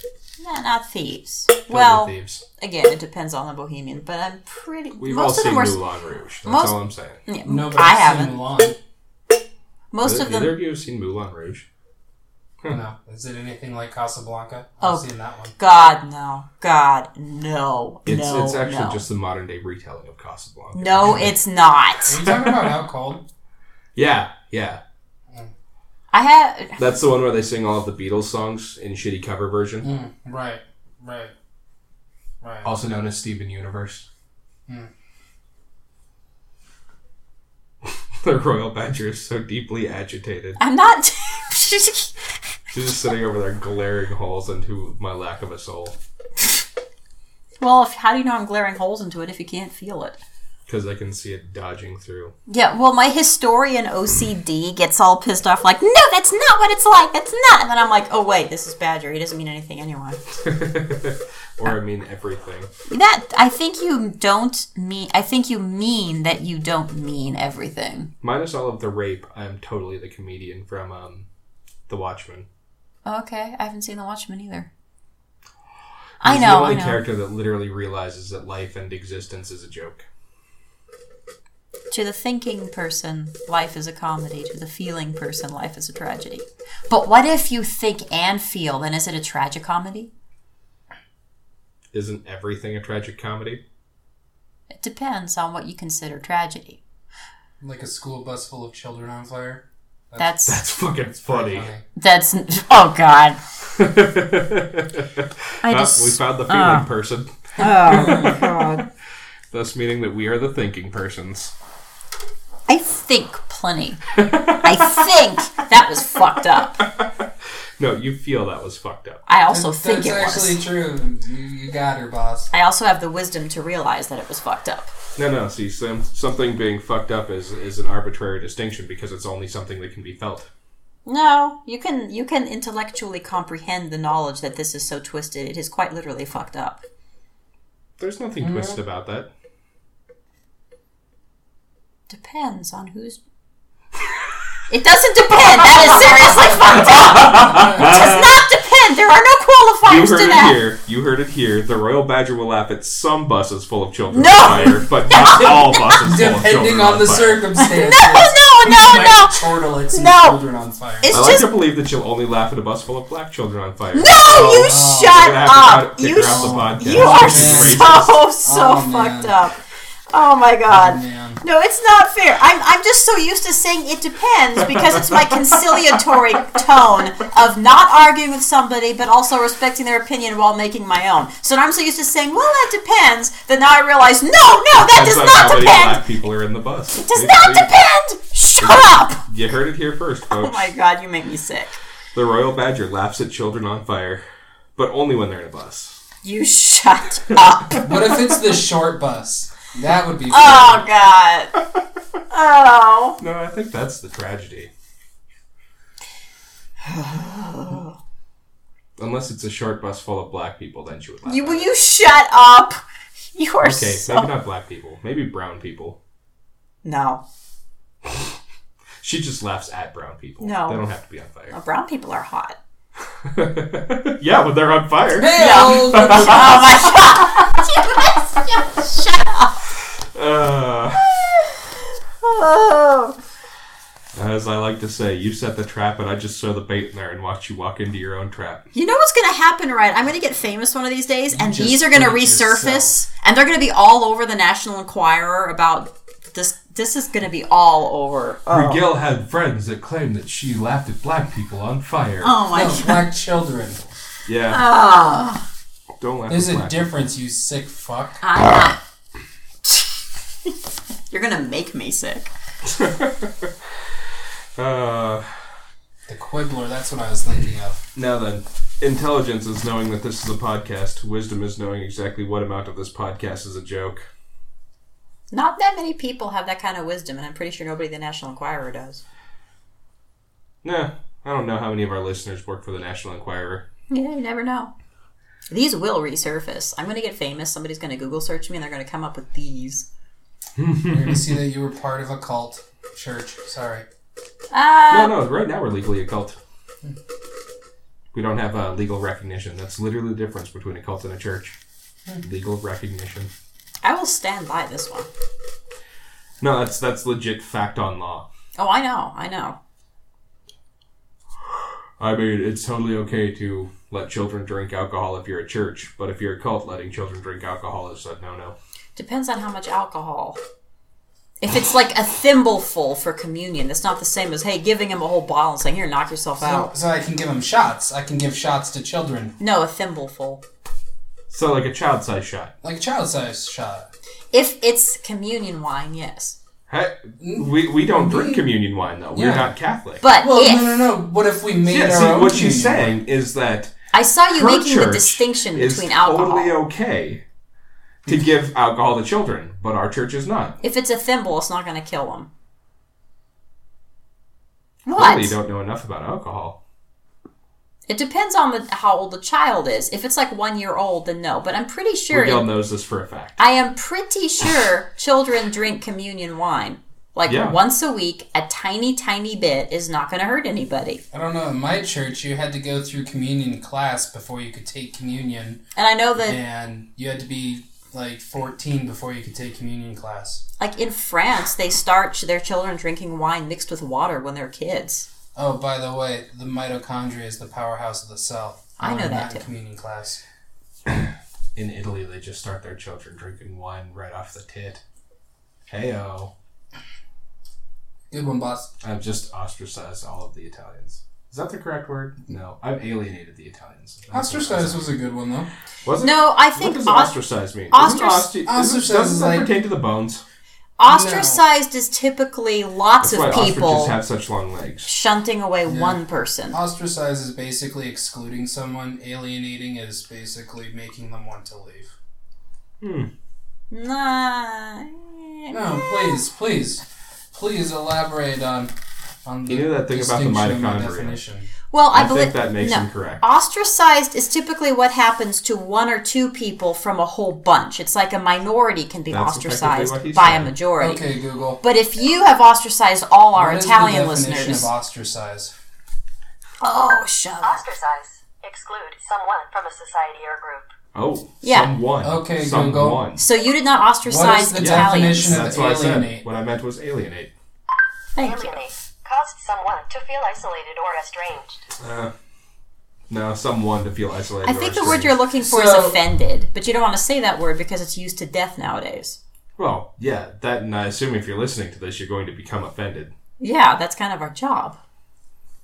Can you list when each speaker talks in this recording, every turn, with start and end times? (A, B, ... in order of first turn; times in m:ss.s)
0:00.4-0:05.8 A
0:01.7-0:02.4 B
0:05.0-0:07.2 B
0:06.4-0:06.8 A
0:07.2-0:08.4 A
0:07.5-0:08.8 C
0:09.9-0:10.6 A
0:10.0-0:11.7 B
0:12.7-0:15.6 C
0:14.8-0:19.0 A
0:18.1-0:21.4 B
0:20.8-0:22.2 A
0:22.0-0:23.2 C
0:22.2-0:22.7 B
0:24.0-0:24.8 B
0:26.1-0:26.8 A
0:26.8-0:29.9 B
0:29.8-0:31.3 C
0:32.4-0:32.7 C
0:32.6-0:34.1 B
0:38.2-0:40.6 B
0:40.6-0:42.1 A
0:42.7-0:46.0 B
0:47.6-0:50.2 A
0:50.7-0:52.3 B
0:52.5-1:00.2 A
1:00.4-1:02.7 B
1:02.9-1:08.1 A
1:08.2-1:11.2 B
1:11.9-1:12.5 B
1:13.0-1:14.7 A
1:16.2-1:17.0 A
1:16.2-1:20.1 B
1:21.9-1:30.1 A
1:31.9-1:33.6 B
1:34.7-1:36.8 A
1:37.6-1:40.4 C
1:40.2-1:40.6 A
1:40.5-1:41.7 B
1:41.3-1:41.8 C
1:42.0-1:43.4 A
1:43.8-1:48.8 B
1:45.6-1:46.9 A
1:47.6-1:48.8 A
1:47.9-1:48.4 C
1:49.5-1:51.5 B
1:52.7-1:54.0 A
1:54.2-1:54.8 B
1:54.6-1:56.8 A
1:56.8-1:57.3 B
1:57.8-1:59.2 B
1:59.3-2:00.6 A
1:59.5-2:02.5 C
2:02.5-2:04.9 A
2:05.2-2:10.5 B
2:11.1-2:16.8 A
2:18.0-2:19.3 B
2:18.4-2:18.8 C
2:22.1-2:23.2 A
2:24.7-2:30.6 A
2:26.7-2:28.4 B
2:27.3-2:27.8 C
2:29.8-2:37.5 B
2:34.1-2:36.0 A
2:36.0-2:41.2 C
2:37.6-2:40.4 A
2:41.0-2:41.5 A
2:41.1-2:48.2 B
2:43.9-2:49.6 A
2:44.5-2:45.2 C
2:46.2-2:49.4 C
2:50.1-3:06.0 A
2:50.7-2:51.4 C
3:04.8-3:07.7 B
3:07.0-3:09.2 A
3:08.6-3:10.7 B
3:10.3-3:11.8 A
3:12.1-3:14.2 B
3:14.8-3:16.0 B
3:16.2-3:17.9 A
3:17.8-3:20.8 C
3:20.3-3:21.6 A
3:22.3-3:23.2 A
3:23.2-3:24.7 B
3:26.8-3:28.0 A
3:29.0-3:31.7 B
3:31.2-3:32.8 A
3:33.3-3:34.3 A
3:33.6-3:36.0 B
3:36.8-3:37.2 A
3:39.0-3:41.6 B
3:40.4-3:40.9 A
3:41.5-3:42.6 A
3:43.2-3:46.8 B
3:45.2-3:46.7 C
3:45.4-3:49.6 A
3:50.1-3:51.1 B
3:51.0-3:53.2 A
3:54.1-3:58.6 B
3:58.7-4:08.8 A
4:01.3-4:02.9 C
4:08.5-4:12.4 B
4:12.2-4:13.1 A
4:12.5-4:13.8 C
4:14.2-4:14.6 B
4:14.5-4:15.4 A
4:16.0-4:17.0 B
4:16.3-4:18.2 C
4:18.2-4:18.8 A
4:19.6-4:20.5 A
4:21.1-4:22.3 A
4:22.6-4:23.5 B
4:24.6-4:25.4 B
4:26.1-4:27.8 C
4:28.0-4:34.0 B
4:35.3-4:39.0 A
4:40.6-4:43.6 B
4:43.9-4:44.7 A
4:45.5-4:49.9 A
4:50.6-4:51.3 B
4:50.9-4:53.9 C
4:54.5-4:55.2 A
4:54.9-4:56.4 B
4:58.1-5:01.6 B
5:02.2-5:03.3 B
5:03.8-5:05.1 A
5:06.4-5:08.3 B
5:08.6-5:09.6 A
5:12.0-5:18.6 B
5:19.0-5:20.4 A
5:21.4-5:26.7 A
5:26.4-5:29.4 C
5:29.4-5:30.4 A
5:31.3-5:32.5 B
5:32.6-5:33.9 C
5:34.3-5:36.4 A
5:36.7-5:40.0 B
5:37.2-5:38.5 C
5:39.1-5:39.5 C
5:40.0-5:40.8 A
5:40.2-5:43.0 C
5:41.7-5:43.7 B
5:43.9-5:46.6 A
5:44.3-5:47.2 B
5:48.0-5:50.6 B
5:50.6-5:52.3 A
5:54.9-5:55.4 A
5:54.9-5:56.6 B
5:57.9-6:02.5 A
6:02.1-6:03.4 B
6:03.4-6:11.0 A
6:07.3-6:07.6 B
6:11.1-6:15.6 C
6:15.8-6:16.4 A
6:16.2-6:20.4 C
6:20.6-6:25.1 A
6:25.4-6:30.2 C
6:28.8-6:29.5 A
6:30.9-6:34.8 B
6:35.7-6:36.3 B
6:38.1-6:38.7 C
6:38.8-6:44.9 B
6:44.1-6:45.5 C
6:45.8-6:50.2 B
6:46.0-6:47.1 A
6:47.7-6:48.3 A
6:48.5-6:49.5 C
6:50.8-6:54.0 A
6:50.8-6:51.4 C
6:53.0-6:54.9 B
6:54.9-6:56.6 A
6:55.7-6:56.0 C
6:56.5-7:01.9 C
7:02.8-7:03.1 B
7:03.7-7:06.2 A
7:05.5-7:08.7 C
7:09.2-7:11.5 C
7:09.5-7:11.2 B
7:11.7-7:21.0 A
7:11.9-7:13.2 B
7:19.1-7:20.5 B
7:20.8-7:21.6 C
7:21.6-7:24.7 A
7:23.4-7:25.5 C
7:26.6-7:27.6 A
7:27.4-7:30.7 D
7:30.9-7:33.2 B
7:31.4-7:31.7 A
7:32.0-7:33.0 C
7:33.2-7:35.4 A
7:34.0-7:36.2 C
7:34.6-7:37.3 B
7:38.1-7:38.6 A
7:38.2-7:41.6 D
7:41.8-7:42.1 B
7:43.1-7:45.1 B
7:44.4-7:49.2 A
7:45.4-7:46.0 C
7:49.6-7:53.1 B
7:53.4-7:54.8 A